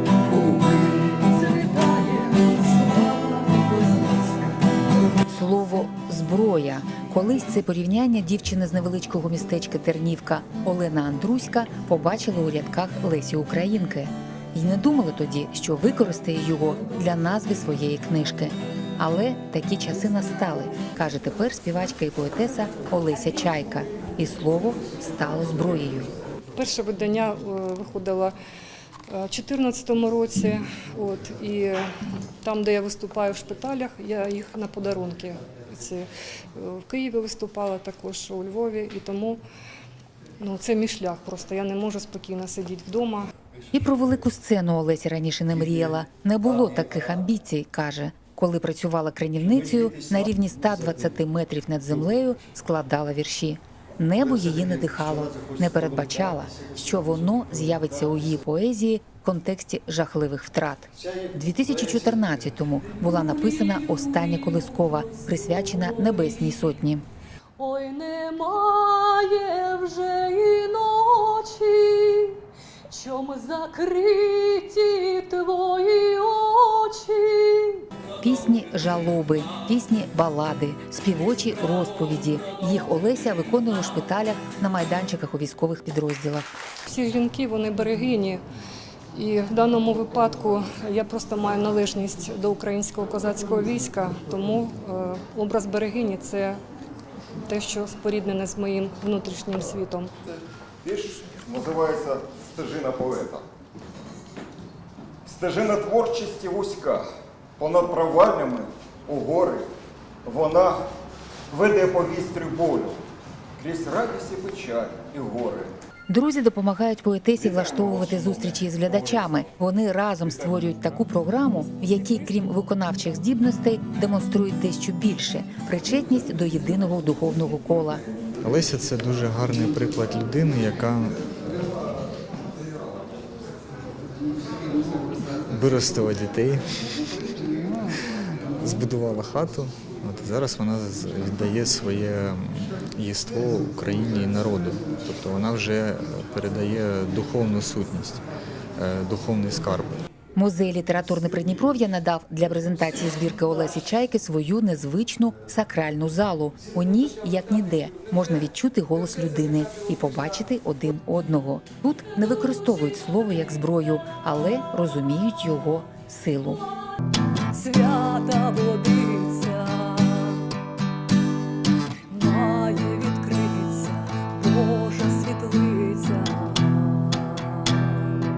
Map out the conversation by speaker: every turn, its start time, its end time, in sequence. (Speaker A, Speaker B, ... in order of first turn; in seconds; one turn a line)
Speaker A: 0.3-4.3
Speaker B: 5.3-26.1
Speaker C: 26.6-28.3
Speaker C: 29.1-31.8
Speaker C: 32.4-39.4
Speaker C: 40.4-43.3
Speaker B: 43.7-67.1
Speaker A: 65.1-65.9
Speaker A: 67.6-72.4
Speaker A: 72.9-77.8
Speaker B: 78.2-86.5
Speaker C: 86.8-88.4
Speaker C: 89.1-96.6
Speaker C: 97.5-100.1
Speaker D: 100.8-103.4
Speaker D: 105.2-107.1
Speaker D: 107.6-109.7
Speaker D: 110.2-110.8
Speaker D: 111.5-113.0
Speaker D: 113.6-115.7
Speaker B: 116.1-128.0
Speaker D: 117.8-118.6
Speaker E: 128.4-131.2
Speaker E: 135.5-136.6
Speaker E: 138.3-148.2
Speaker E: 148.8-149.9
Speaker B: 150.3-166.7
Speaker A: 167.5-170.5
Speaker A: 172.1-177.9